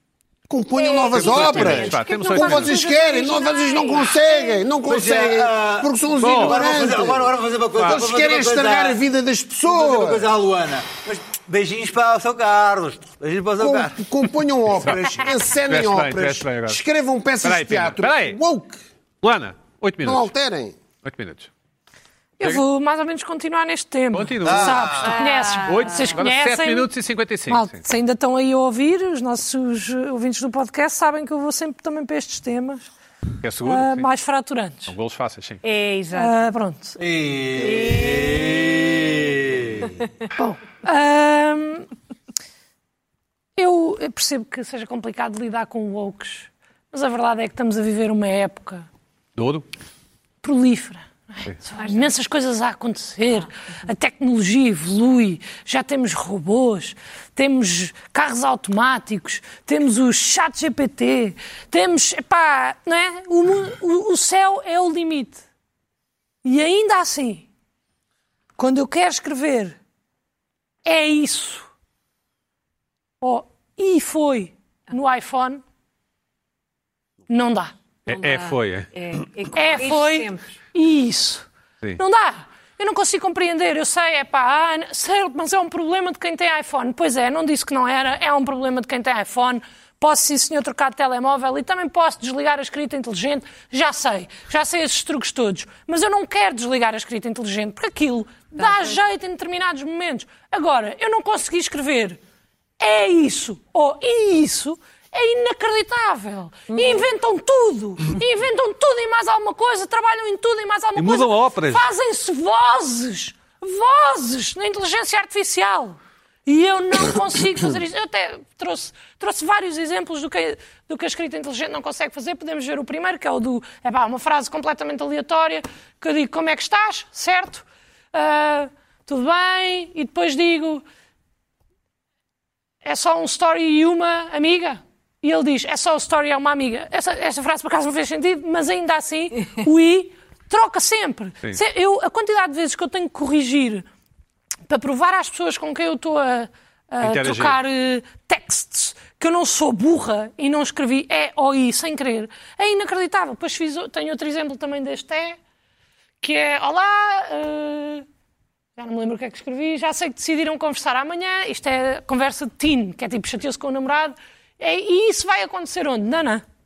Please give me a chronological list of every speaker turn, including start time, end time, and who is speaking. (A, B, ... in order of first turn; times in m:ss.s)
0:00.5-0:10.3 A
0:00.7-0:04.6 B
0:01.1-0:02.8 C
0:04.8-0:09.0 D
0:06.2-0:06.6 C
0:09.6-0:14.0 D
0:13.6-0:18.8 A
0:15.6-0:16.8 C
0:17.4-0:18.4 C
0:19.2-0:20.3 C
0:20.0-0:20.8 A
0:21.0-0:21.5 C
0:22.4-0:26.9 E
0:24.1-0:27.8 C
0:24.4-0:25.2 D
0:25.0-0:26.2 B
0:27.5-0:32.9 E
0:33.4-0:34.1 C
0:33.6-0:34.9 E
0:34.9-0:35.6 C
0:35.6-0:36.4 B
0:36.1-0:37.0 E
0:37.0-0:40.0 D
0:37.5-0:38.7 B
0:40.4-0:41.9 E
0:43.6-0:48.8 E
0:49.4-0:49.7 C
0:50.4-1:05.4 E
0:51.8-0:52.1 B
1:06.4-1:07.5 E
1:08.6-1:09.8 E
1:10.8-1:11.7 E
1:13.2-1:15.6 E
1:17.3-1:17.7 E
1:18.1-1:18.9 C
1:18.1-1:20.6 B
1:19.5-1:21.4 E
1:22.0-1:42.2 E
1:38.6-1:39.0 B
1:42.8-2:10.8 E
1:46.7-1:47.0 B
1:51.0-1:51.8 C
2:12.8-2:23.8 E
2:24.7-2:35.4 E
2:27.0-2:27.6 C
2:36.2-2:38.0 E
2:38.8-2:46.4 E